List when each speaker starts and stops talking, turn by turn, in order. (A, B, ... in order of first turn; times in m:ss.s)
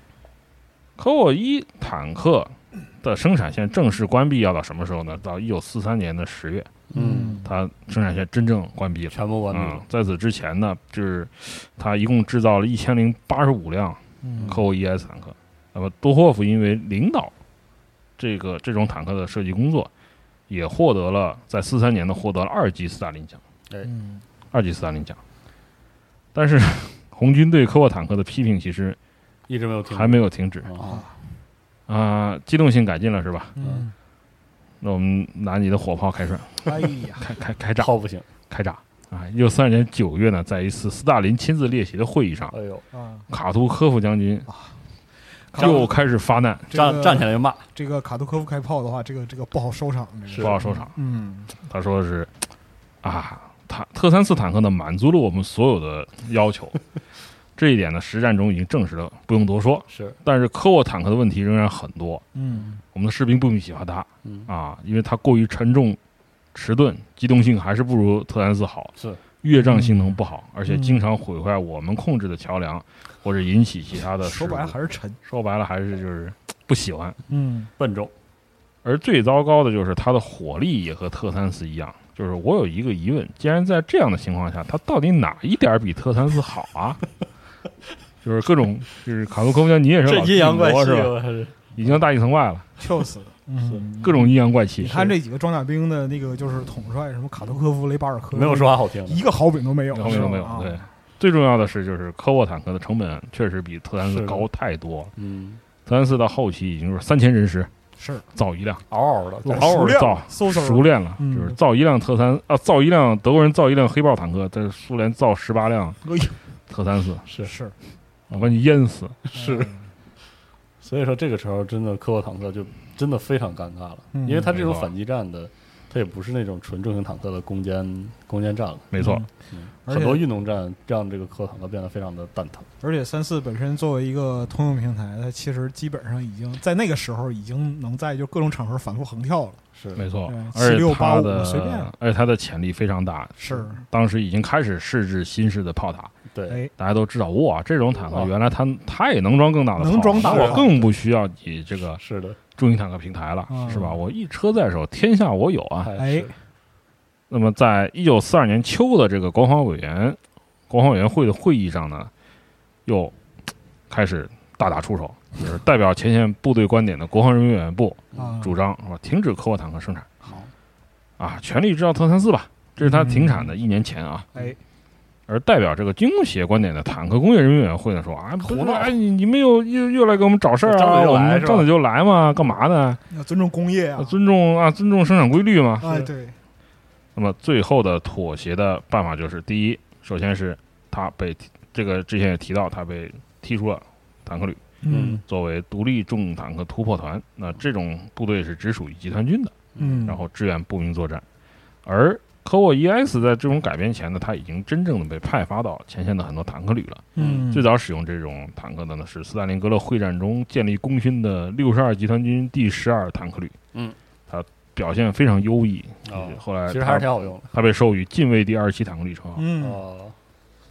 0:01.0-0:06.7 A
0:06.9-0:07.5 B
0:06.9-0:07.5 C
0:07.4-0:17.3 A
0:09.1-0:09.8 B
0:14.2-0:14.6 C
0:14.4-0:14.6 B
0:18.2-0:19.9 A
0:20.5-0:23.4 A
0:23.8-0:24.2 C
0:24.5-0:25.2 A
0:26.3-0:29.0 A
0:29.5-0:31.0 B
0:29.9-0:30.7 A
0:30.8-0:31.2 C
0:31.9-0:33.6 A
0:33.6-0:33.9 C
0:33.6-0:33.8 B
0:34.8-0:37.9 A
0:36.7-0:37.3 C
0:37.8-0:38.3 B
0:38.5-0:42.5 A
0:42.5-0:42.8 B
0:42.9-0:43.3 C
0:43.3-0:44.5 A
0:44.5-0:44.8 C
0:45.5-0:45.9 C
0:45.5-0:46.7 A
0:45.6-0:45.9 B
0:46.7-0:51.5 C
0:46.7-0:47.6 B
0:50.3-0:50.6 B
0:50.4-0:50.9 A
0:51.6-0:52.3 A
0:53.0-0:56.8 A
0:57.6-1:02.2 A
0:59.9-1:00.2 B
1:02.3-1:02.8 C
1:02.9-1:06.0 A
1:04.2-1:04.5 B
1:06.5-1:17.2 A
1:09.0-1:09.2 B
1:09.5-1:11.0 C
1:14.2-1:15.2 C
1:17.3-1:17.7 C
1:17.8-1:18.1 B
1:18.8-1:27.0 A
1:28.2-1:31.1 A
1:30.0-1:31.9 B
1:31.8-1:32.7 A
1:32.8-1:40.8 C
1:34.0-1:35.1 A
1:38.3-1:39.2 B
1:39.9-1:45.1 A
1:44.0-1:44.5 B
1:45.2-1:45.6 B
1:45.9-1:47.7 A
1:48.0-1:48.3 C
1:48.3-1:48.8 A
1:48.9-1:50.0 B
1:49.5-1:51.6 C
1:49.5-1:56.0 A
1:56.0-1:56.4 C
1:56.7-1:57.2 A
1:57.3-1:57.5 B
1:57.4-1:57.8 C
1:58.3-1:59.2 A
1:59.2-1:59.7 B
1:59.3-1:59.9 C
2:00.8-2:08.9 B
2:04.1-2:04.5 C
2:04.5-2:04.9 A
2:08.9-2:09.2 A
2:09.0-2:09.3 C
2:09.5-2:12.7 B
2:09.9-2:10.2 C
2:12.8-2:19.6 C
2:19.7-2:20.0 B
2:20.0-2:26.1 A
2:20.3-2:21.9 C
2:23.4-2:23.8 C
2:26.3-2:26.6 B
2:26.8-2:32.0 A
2:29.8-2:30.8 C
2:30.1-2:30.8 B
2:32.0-2:32.4 B
2:32.6-2:35.9 A
2:33.5-2:34.0 C
2:35.8-2:36.3 B
2:36.0-2:36.3 C
2:37.3-2:42.1 A
2:42.8-2:43.2 A
2:43.9-2:50.1 A
2:48.1-2:48.4 B
2:48.2-2:48.6 C
2:50.2-2:50.5 B
2:51.2-2:54.3 A
2:52.8-2:53.5 C
2:55.3-3:03.0 A
2:58.4-2:58.9 B
3:00.6-3:01.7 B
3:03.1-3:04.2 C
3:04.0-3:05.9 A
3:05.8-3:06.4 C
3:05.8-3:06.1 B
3:07.2-3:14.6 A
3:14.8-3:15.2 C
3:14.9-3:15.2 B
3:15.3-3:21.2 A
3:19.8-3:20.2 B
3:19.8-3:20.2 C
3:21.8-3:33.6 A
3:27.2-3:27.5 B
3:27.2-3:27.7 C
3:34.3-3:39.4 A
3:36.0-3:37.5 B
3:39.4-3:39.8 C
3:39.6-3:40.2 B